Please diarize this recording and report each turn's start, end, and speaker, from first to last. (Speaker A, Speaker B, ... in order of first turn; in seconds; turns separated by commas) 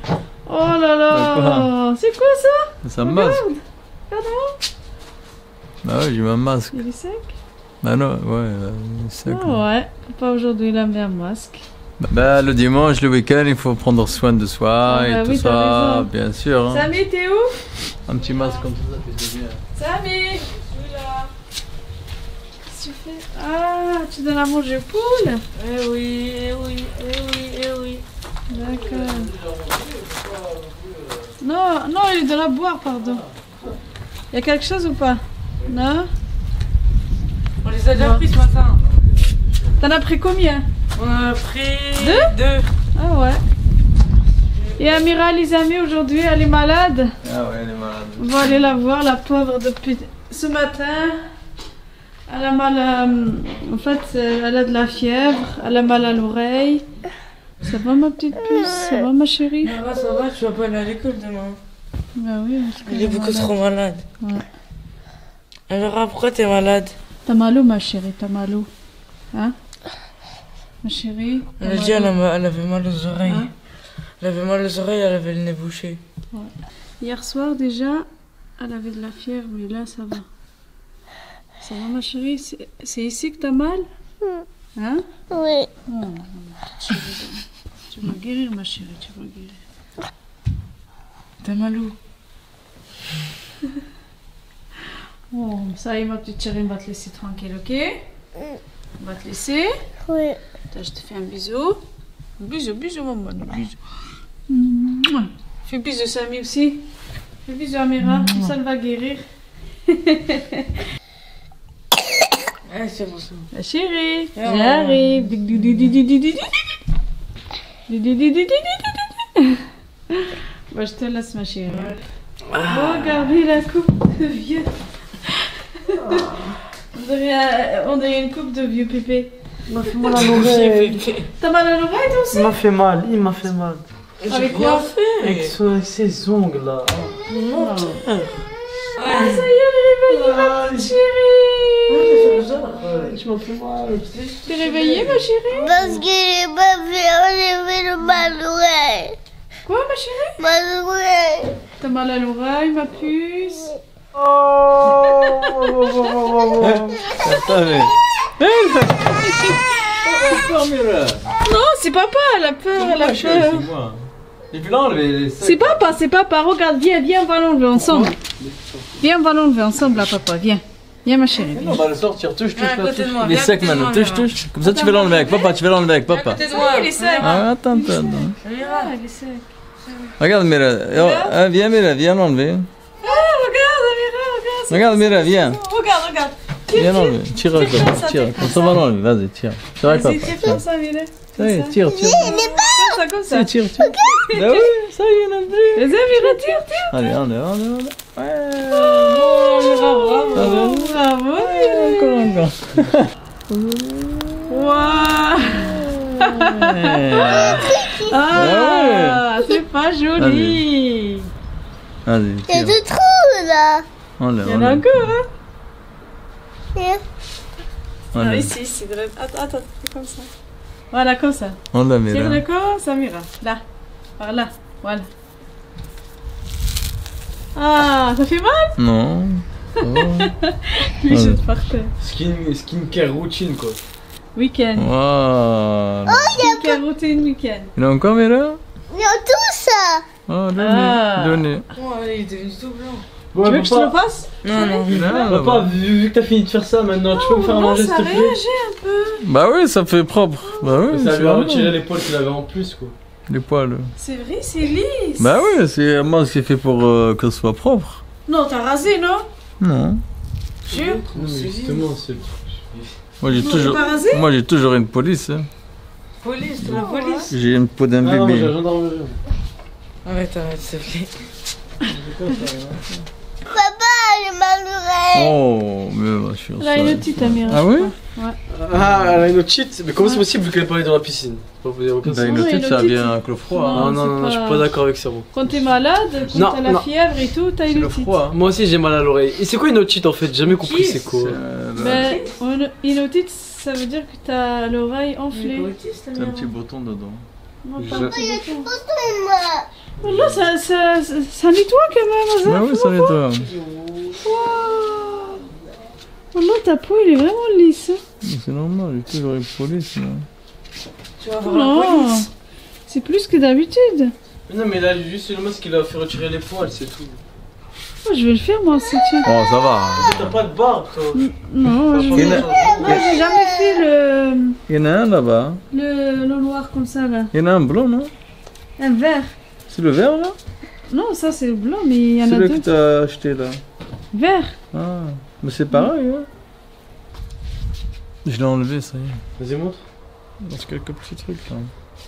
Speaker A: 0.4-4.6, Speaker B: 1.1-1.7, Speaker B: 2.8-3.4, Speaker B: 5.8-6.8, Speaker A: 6.7-7.4, Speaker B: 7.8-9.6, Speaker A: 9.2-11.6, Speaker B: 12.0-16.9, Speaker A: 14.8-16.1, Speaker A: 16.7-17.7, Speaker B: 18.1-19.6, Speaker A: 19.7-20.5, Speaker C: 20.5-21.3, Speaker A: 22.7-25.4, Speaker C: 25.6-28.0, Speaker A: 28.5-29.3, Speaker B: 29.0-31.2, Speaker A: 31.4-33.2, Speaker A: 34.3-36.1, Speaker C: 37.6-38.8, Speaker A: 37.9-38.3, Speaker B: 38.9-39.5, Speaker A: 39.8-40.7, Speaker C: 41.0-42.7, Speaker A: 42.0-42.4, Speaker A: 43.0-43.4, Speaker C: 44.5-45.0, Speaker A: 44.8-47.1, Speaker B: 47.2-48.6, Speaker A: 48.2-51.2, Speaker A: 52.3-56.8, Speaker A: 57.6-59.8, Speaker C: 59.6-61.6, Speaker A: 62.1-63.5, Speaker C: 62.9-64.0, Speaker A: 64.2-64.5, Speaker C: 65.7-66.9, Speaker A: 67.3-68.7, Speaker A: 70.8-72.1, Speaker C: 71.6-73.5, Speaker A: 73.2-73.5, Speaker C: 74.2-76.0, Speaker A: 76.3-78.0, Speaker A: 78.6-80.3, Speaker A: 81.6-83.8, Speaker A: 84.8-85.0, Speaker D: 85.3-85.7, Speaker A: 85.9-89.6, Speaker C: 91.4-92.0, Speaker A: 95.3-98.0, Speaker A: 99.0-99.7, Speaker D: 100.1-100.4, Speaker A: 100.7-101.8, Speaker A: 102.4-103.8, Speaker A: 104.5-106.8, Speaker A: 107.5-109.2, Speaker C: 108.0-108.5, Speaker A: 109.9-110.7, Speaker C: 112.7-113.5, Speaker A: 113.5-116.5, Speaker C: 114.4-115.1, Speaker A: 117.9-122.0, Speaker C: 121.7-122.0, Speaker C: 122.5-123.2, Speaker A: 122.6-124.7, Speaker A: 125.2-126.3, Speaker E: 126.0-126.3, Speaker A: 126.9-129.3, Speaker E: 129.7-131.0, Speaker A: 129.8-130.2, Speaker C: 130.1-131.3, Speaker A: 131.4-132.5, Speaker E: 132.3-133.8, Speaker C: 134.2-135.5, Speaker A: 134.3-134.9, Speaker E: 135.2-138.4, Speaker A: 137.5-138.1, Speaker C: 139.0-139.5, Speaker A: 139.0-142.0, Speaker E: 140.1-141.0, Speaker C: 141.9-143.2, Speaker E: 142.8-144.1, Speaker C: 144.1-145.2, Speaker A: 144.4-146.0, Speaker D: 145.6-149.2, Speaker A: 149.7-150.3, Speaker D: 150.4-151.6, Speaker A: 151.8-153.8, Speaker B: 154.2-161.2, Speaker E: 155.7-157.0, Speaker A: 161.4-163.7, Speaker B: 162.8-165.9, Speaker A: 165.4-168.2, Speaker E: 168.4-168.7, Speaker A: 169.0-171.8, Speaker B: 171.5-176.4, Speaker C: 172.5-174.3, Speaker A: 174.6-175.6, Speaker C: 176.1-177.4, Speaker A: 176.3-179.4, Speaker B: 177.2-178.3, Speaker C: 178.4-178.9, Speaker C: 179.8-180.1, Speaker B: 180.2-182.7, Speaker A: 180.9-181.4, Speaker A: 183.0-188.8, Speaker B: 184.7-185.6, Speaker B: 186.7-190.6, Speaker A: 189.8-194.7, Speaker B: 191.4-192.3, Speaker D: 191.8-193.0, Speaker E: 193.3-194.0, Speaker D: 193.8-194.3, Speaker B: 194.3-199.7, Speaker A: 195.7-197.1, Speaker C: 198.8-200.6, Speaker A: 199.8-202.4, Speaker B: 200.3-203.1, Speaker B: 203.8-204.2, Speaker A: 204.5-211.3, Speaker B: 206.3-207.7, Speaker D: 207.1-208.3, Speaker B: 208.3-209.2, Speaker B: 210.2-210.6, Speaker B: 212.1-212.8, Speaker D: 212.5-213.8, Speaker B: 214.2-215.1, Speaker A: 214.4-215.2, Speaker D: 216.8-217.0, Speaker B: 218.1-218.5, Speaker A: 218.1-220.3, Speaker A: 220.9-223.6, Speaker B: 221.7-222.4, Speaker A: 224.2-225.1, Speaker A: 227.5-228.8, Speaker B: 228.8-230.3, Speaker A: 229.8-231.9, Speaker B: 231.1-231.4, Speaker E: 232.0-233.8, Speaker A: 234.3-234.9, Speaker B: 234.8-236.4, Speaker D: 236.1-236.8, Speaker A: 236.4-237.7, Speaker B: 237.8-238.6, Speaker D: 238.9-240.1, Speaker B: 240.3-241.7, Speaker A: 240.6-241.5, Speaker C: 241.8-243.0, Speaker E: 243.3-243.9, Speaker A: 243.4-244.8, Speaker C: 244.4-245.0, Speaker B: 244.9-245.7, Speaker E: 245.1-248.4, Speaker A: 247.1-249.2, Speaker B: 249.2-251.8, Speaker A: 250.4-250.8, Speaker E: 250.9-252.9, Speaker B: 253.3-253.9, Speaker A: 254.0-255.4, Speaker B: 255.2-258.0, Speaker A: 258.2-259.2, Speaker B: 259.6-260.0, Speaker C: 260.7-261.9, Speaker E: 260.7-262.9, Speaker B: 263.2-265.5, Speaker A: 263.3-264.2, Speaker C: 266.2-267.3, Speaker B: 266.6-268.5, Speaker A: 266.7-267.3, Speaker E: 268.0-269.1, Speaker C: 270.1-271.1, Speaker E: 272.0-272.4, Speaker B: 272.2-272.8, Speaker D: 273.5-275.3, Speaker B: 275.1-277.9, Speaker A: 276.6-278.4, Speaker E: 278.5-282.4, Speaker B: 282.0-283.9, Speaker A: 282.2-284.7, Speaker E: 283.7-285.3, Speaker A: 285.3-288.2, Speaker E: 286.3-286.9, Speaker B: 287.6-288.3, Speaker E: 288.3-291.4, Speaker C: 290.5-291.1, Speaker B: 291.1-292.1, Speaker A: 291.8-295.7, Speaker C: 291.8-292.3, Speaker C: 295.3-296.5, Speaker B: 296.1-297.2, Speaker A: 297.6-298.7, Speaker B: 297.8-298.1, Speaker D: 297.9-299.7, Speaker A: 300.0-303.1, Speaker B: 300.0-300.4, Speaker B: 302.4-303.5, Speaker C: 303.4-304.2, Speaker A: 304.2-305.4, Speaker A: 306.3-308.0, Speaker B: 308.2-310.2, Speaker C: 311.2-312.3, Speaker A: 311.4-312.3, Speaker A: 312.9-314.1, Speaker E: 314.5-317.2, Speaker A: 318.0-319.3, Speaker B: 319.2-320.4, Speaker E: 319.9-322.9, Speaker A: 321.1-324.6, Speaker B: 322.1-323.1, Speaker D: 322.3-323.8, Speaker B: 324.7-325.6, Speaker A: 325.7-327.3, Speaker B: 327.3-328.1, Speaker A: 328.8-329.3, Speaker B: 329.7-330.4, Speaker A: 330.9-332.7, Speaker B: 332.2-333.6, Speaker A: 334.1-334.6, Speaker B: 334.7-336.3, Speaker B: 338.2-339.2, Speaker E: 339.4-339.8, Speaker B: 340.4-341.7